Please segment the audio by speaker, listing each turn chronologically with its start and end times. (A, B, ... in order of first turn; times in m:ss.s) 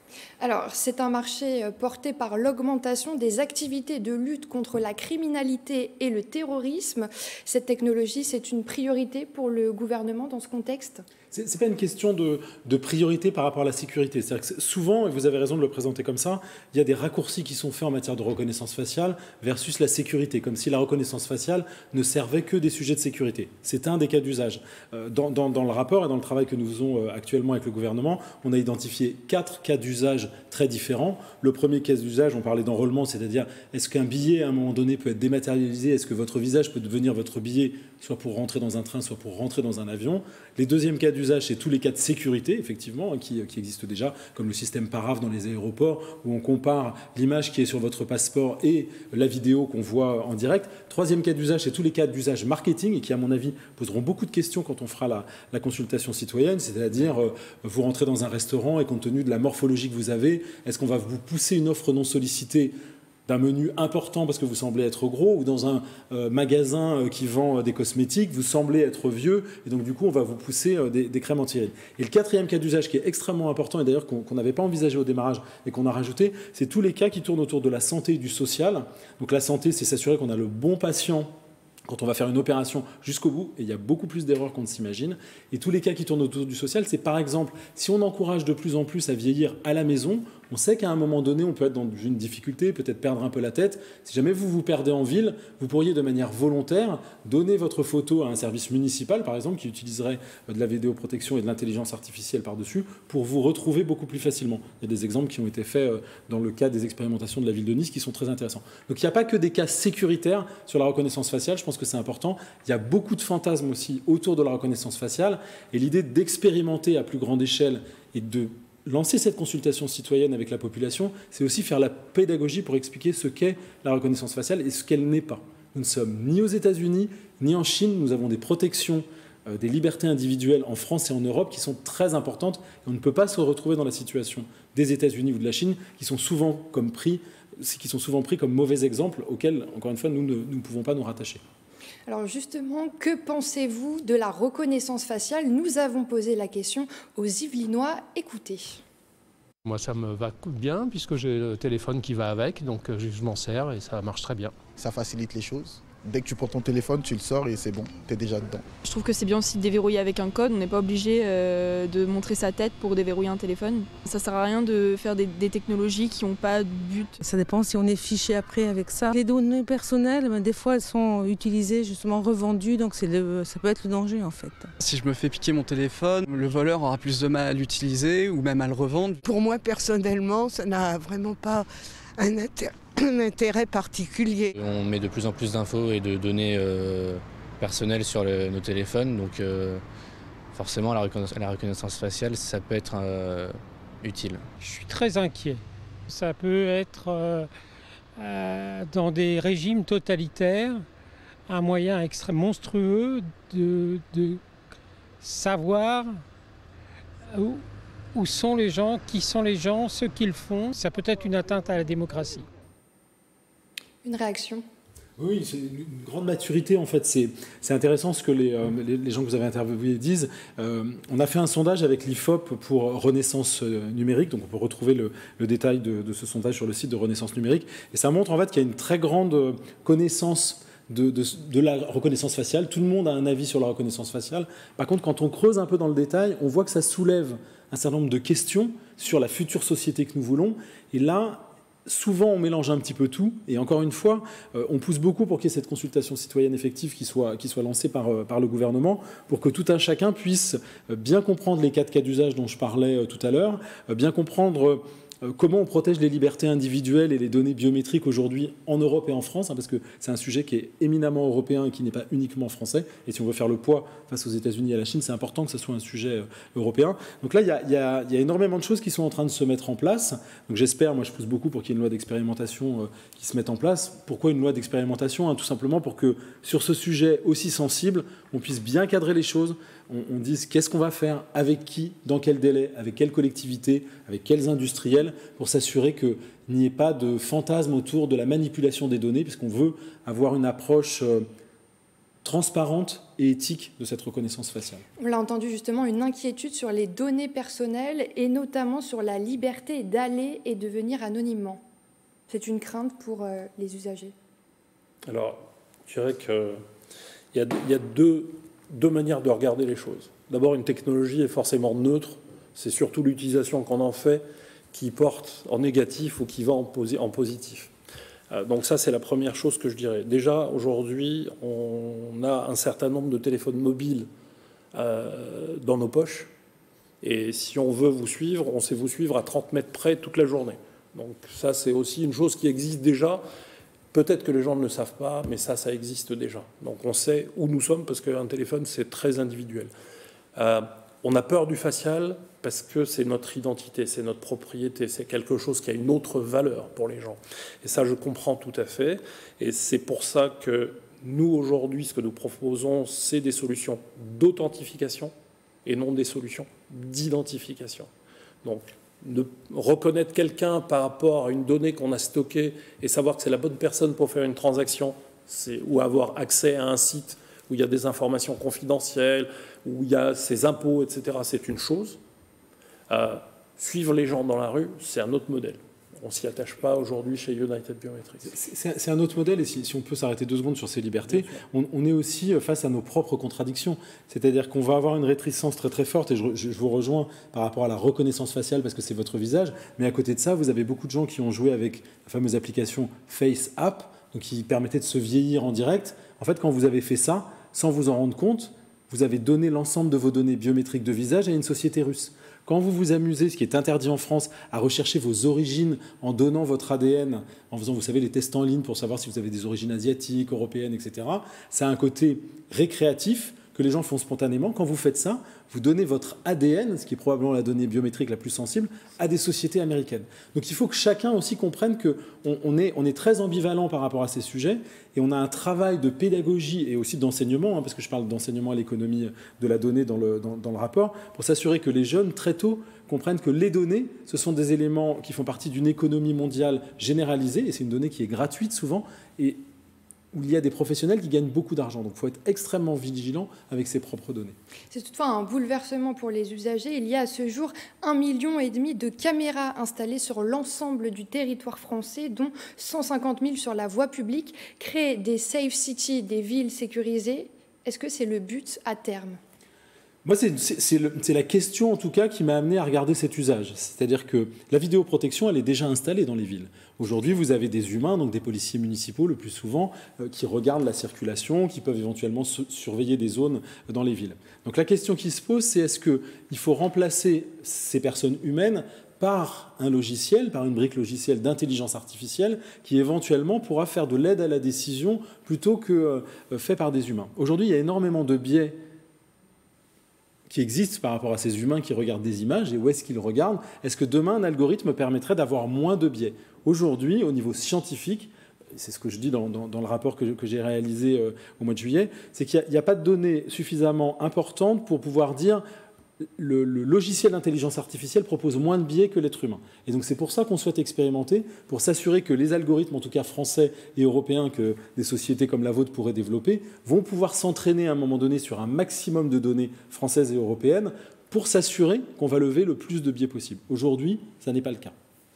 0:00.4-0:11.0 A
0:11.3-1:02.7 B
1:03.2-1:21.3 B
1:21.8-2:21.4 B
2:22.1-2:28.8 A
2:29.6-2:34.6 C
2:34.8-2:38.6 D
2:38.8-2:47.2 E
2:47.2-2:54.7 F
2:54.8-2:59.2 G
2:59.2-3:01.7 H
3:02.2-3:04.5 H
3:04.5-3:09.8 I
3:10.5-3:14.4 I
3:14.6-3:17.5 J
3:18.2-3:20.8 J
3:21.5-3:24.4 J
3:25.2-3:26.2 J
3:27.3-3:32.4 J
3:34.0-3:34.6 A
3:35.2-4:51.3 B
4:52.2-4:54.8 B
4:55.0-5:01.6 A
5:02.3-5:04.1 A
5:05.1-5:06.6 K
5:07.3-5:17.7 K
5:18.3-5:24.1 K
5:24.7-5:26.3 K
5:27.0-5:33.2 K
5:33.9-5:39.7 K
5:40.4-5:55.1 K
5:55.6-5:57.9 K
5:58.4-6:12.0 K
6:12.9-6:18.3 K
6:18.2-7:19.4 B
6:21.1-6:21.4 K
7:20.1-7:24.4 B
7:24.7-7:39.2 A
7:40.0-8:08.6 B
8:10.3-8:25.4 B
8:26.0-8:44.7 B